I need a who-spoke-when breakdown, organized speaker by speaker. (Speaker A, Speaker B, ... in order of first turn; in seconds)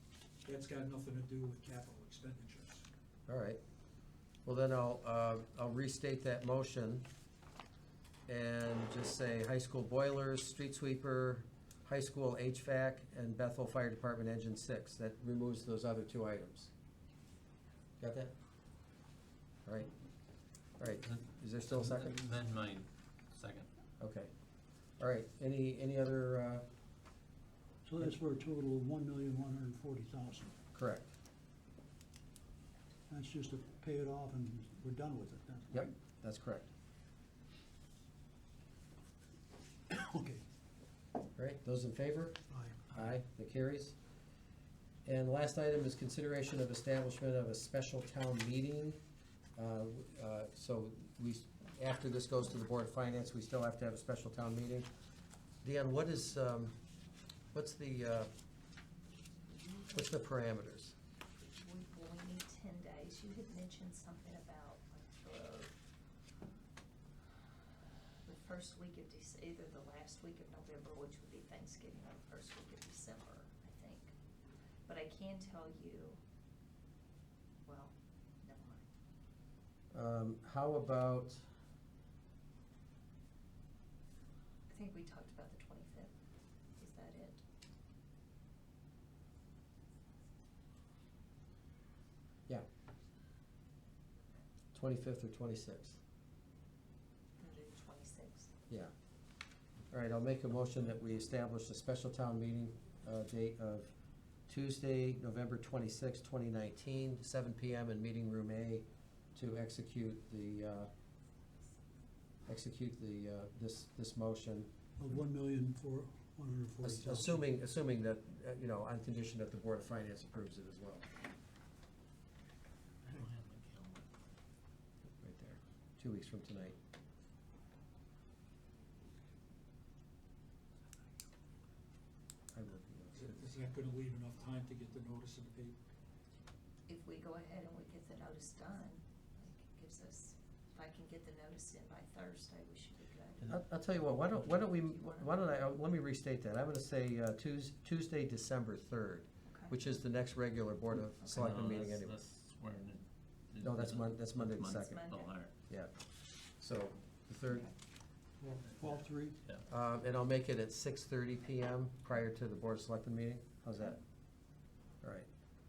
Speaker A: 0.4-2.9, 133.1-135.8
Speaker B: 3.3-3.6, 4.5-7.1, 8.3-16.7, 18.0-18.4, 19.6-19.9, 20.8-22.2, 24.0-24.3, 25.0-26.6, 30.7-31.1, 35.7-36.7, 41.4-42.4, 42.9-44.0, 45.0-49.0, 49.6-54.9, 55.6-56.8, 57.5-58.3, 59.9-60.9, 79.9-81.5, 94.7-96.0, 99.9-103.9, 104.5-110.9, 112.5-114.7, 116.8-121.1, 125.1-126.8, 132.5-133.4, 143.5-152.2, 153.6-155.1, 155.6-156.0, 156.6-157.7, 159.7-164.0, 165.0-165.3
Speaker C: 21.7-23.7, 123.0-124.0, 143.4-144.6, 151.3-155.5, 158.9-159.6
Speaker D: 27.9-30.6, 33.1-35.9, 39.9-40.4, 42.5-42.9, 115.0-117.4, 158.4-159.4
Speaker E: 61.4-65.8, 68.2-74.1, 74.9-76.2, 77.6-78.9, 84.7-86.1, 86.8-87.4, 97.4-98.5, 136.9-143.6, 144.6-145.3, 149.5-149.8, 154.9-155.3